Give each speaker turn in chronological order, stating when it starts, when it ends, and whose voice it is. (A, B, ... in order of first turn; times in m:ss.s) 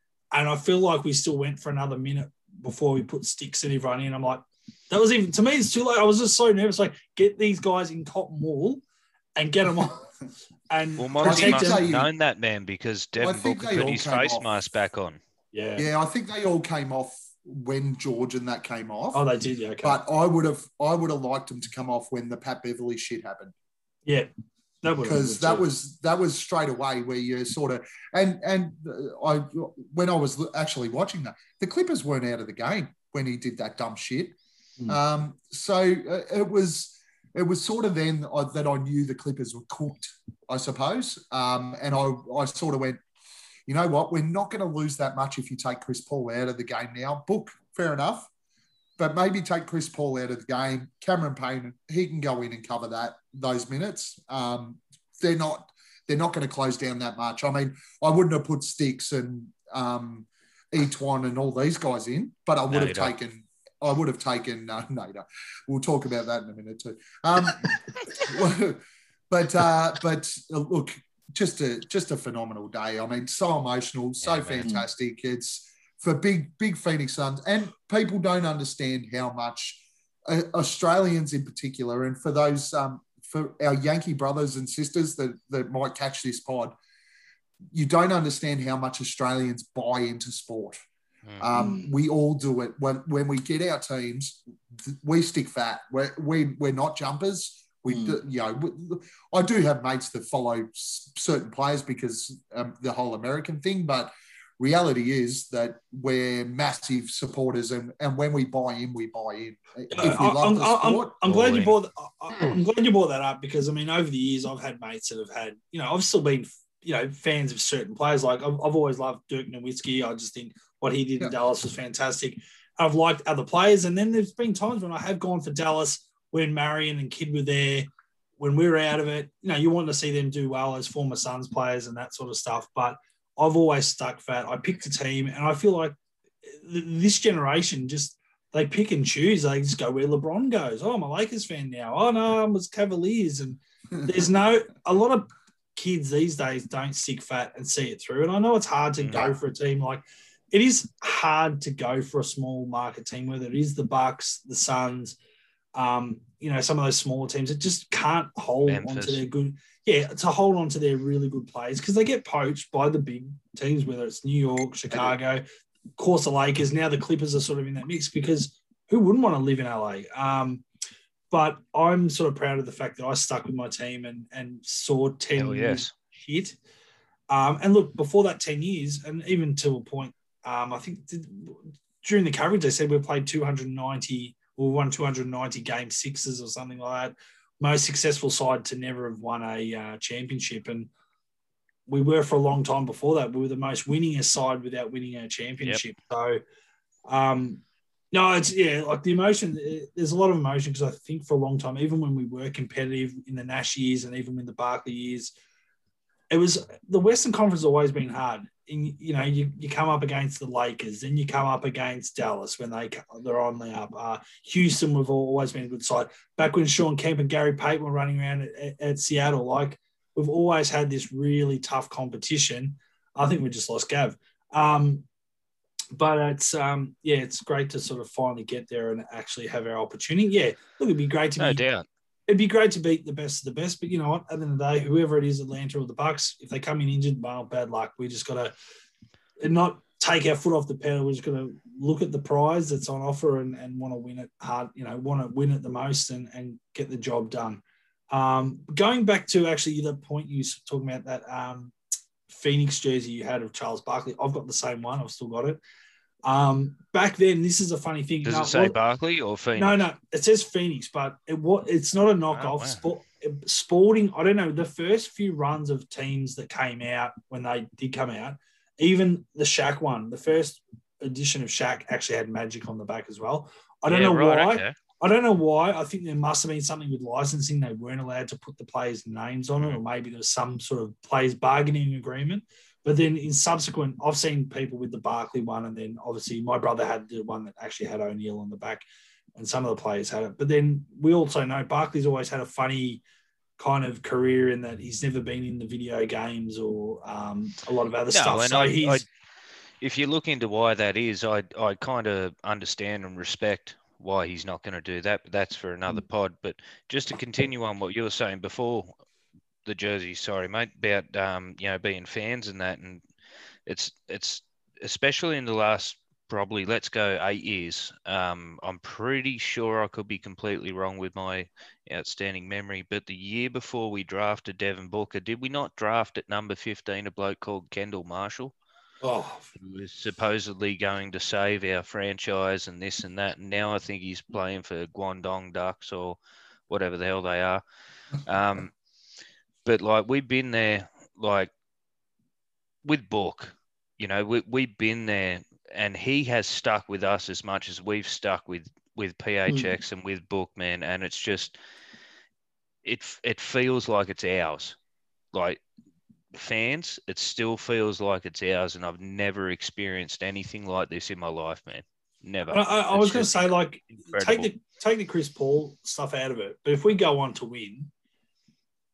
0:00.3-0:08.8 A
0:09.4-0:10.0 A
0:10.7-0:11.8 A
0:11.0-0:15.2 B
0:11.2-0:12.1 C
0:13.2-0:14.5 C
0:15.5-0:15.8 A
0:15.8-0:19.2 C
0:19.1-0:20.0 A
0:19.8-0:23.5 C
0:24.8-0:25.6 A
0:25.0-0:34.4 C
0:34.9-0:43.0 C
0:43.7-0:48.3 C
0:49.0-1:26.7 C
1:02.7-1:03.1 B
1:14.2-1:14.8 B
1:27.7-1:30.8 C
1:31.4-1:51.2 C
1:31.5-1:31.9 A
1:49.9-2:15.9 A
1:51.2-1:51.7 B
2:16.4-2:35.2 A
2:29.0-2:29.3 B
2:35.7-2:45.4 A
2:38.6-2:39.2 B
2:46.0-2:50.6 A
2:51.3-2:56.6 A
2:55.4-2:55.9 B
2:57.3-3:10.9 A
3:11.9-3:16.4 A
3:17.1-3:25.3 A
3:26.3-3:45.0 A
3:45.9-3:51.6 A
3:51.4-3:51.8 B
3:52.3-3:58.5 A
3:59.4-4:11.7 A
4:12.3-4:15.6 A
4:16.2-4:18.8 A
4:18.2-4:19.8 B
4:19.6-4:48.8 A
4:22.3-4:22.8 B
4:33.9-4:34.8 B
4:49.3-4:53.0 A
4:53.6-4:59.0 A
4:58.1-4:59.0 B
4:59.8-5:08.9 B
5:09.6-5:13.0 B
5:13.7-5:28.5 B
5:29.0-5:29.5 A
5:29.6-5:37.6 B
5:38.2-5:38.7 B
5:39.6-5:41.5 B
5:42.8-5:51.6 B
5:52.8-5:54.8 B
5:55.3-5:55.6 B
5:56.3-6:04.5 B
6:02.5-6:07.9 A